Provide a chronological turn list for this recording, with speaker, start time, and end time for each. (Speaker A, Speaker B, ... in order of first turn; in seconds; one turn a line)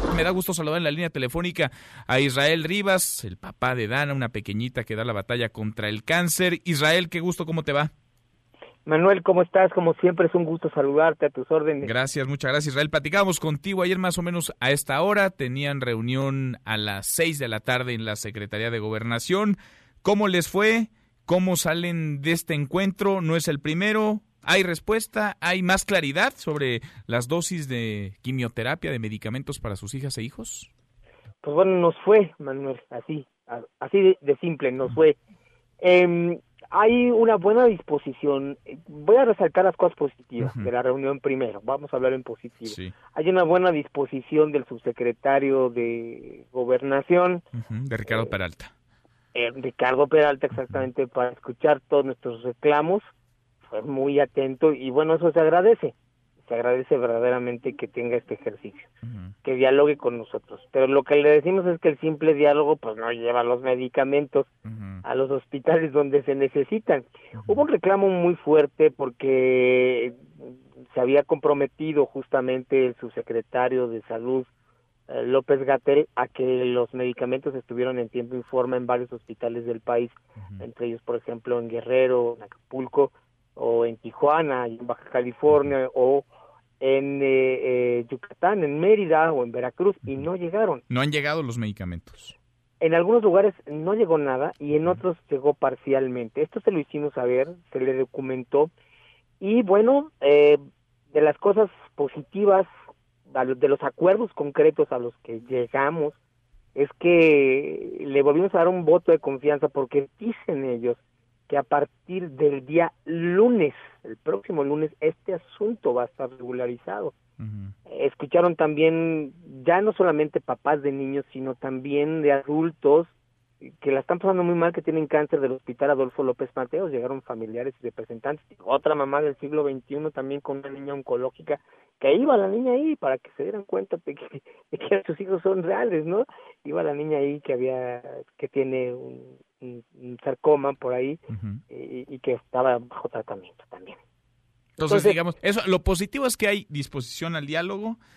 Speaker A: 0.1-7.9
Speaker B: 8.8-11.9
Speaker A: 11.8-30.7
Speaker B: 31.4-35.2
Speaker B: 35.8-47.4
Speaker A: 40.4-40.7
Speaker A: 42.7-42.9
Speaker A: 47.5-48.7
Speaker B: 48.1-48.4
Speaker B: 49.3-53.0
Speaker A: 50.6-50.9
Speaker B: 53.7-58.9
Speaker A: 59.0-59.3
Speaker B: 59.4-64.5
Speaker A: 64.7-65.0
Speaker B: 65.0-74.5
Speaker A: 67.4-67.7
Speaker B: 75.1-86.3
Speaker A: 80.4-80.7
Speaker B: 86.8-90.8
Speaker A: 90.9-92.3
Speaker B: 92.8-98.7
Speaker B: 99.4-102.7
Speaker B: 103.3-106.2
Speaker B: 106.8-117.1
Speaker A: 117.4-117.7
Speaker B: 117.9-123.1
Speaker B: 123.6-144.0
Speaker A: 141.3-141.6
Speaker A: 144.8-148.0
Speaker B: 144.8-145.2